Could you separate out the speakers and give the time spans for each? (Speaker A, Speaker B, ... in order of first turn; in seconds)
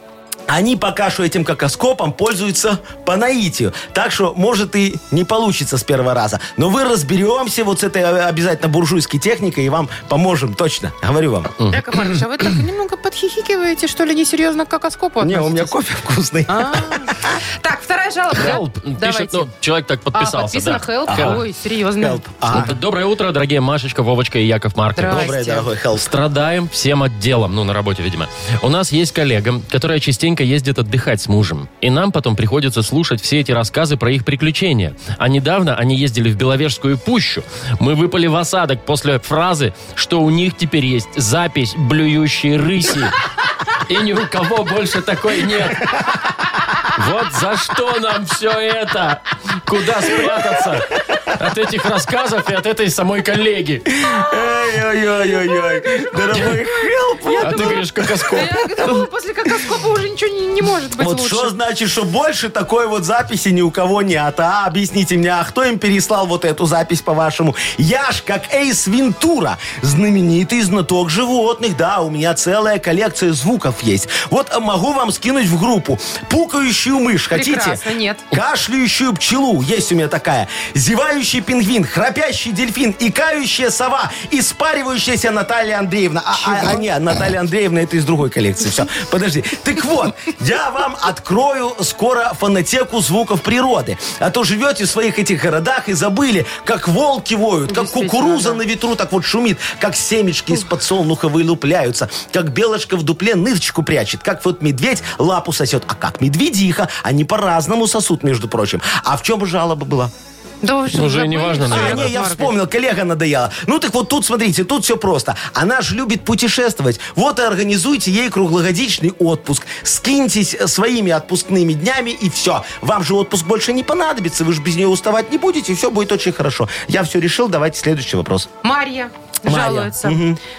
Speaker A: 0.5-11.5, 15.2-17.4, 21.1-21.4, 22.0-22.8, 25.1-26.1, 53.9-58.9, 61.0-110.1, 111.7-128.5, 129.4-130.4
Speaker B: 11.7-15.7, 16.5-19.5, 20.1-22.3, 24.9-25.7, 55.8-56.1, 57.2-57.8, 58.3-61.5, 77.3-78.3, 86.3-86.8, 97.7-98.6, 110.6-112.5, 128.6-130.2
Speaker C: 18.4-21.4, 22.5-25.3, 25.9-43.2, 43.9-46.0, 46.9-53.9, 57.4-58.9, 110.9-112.1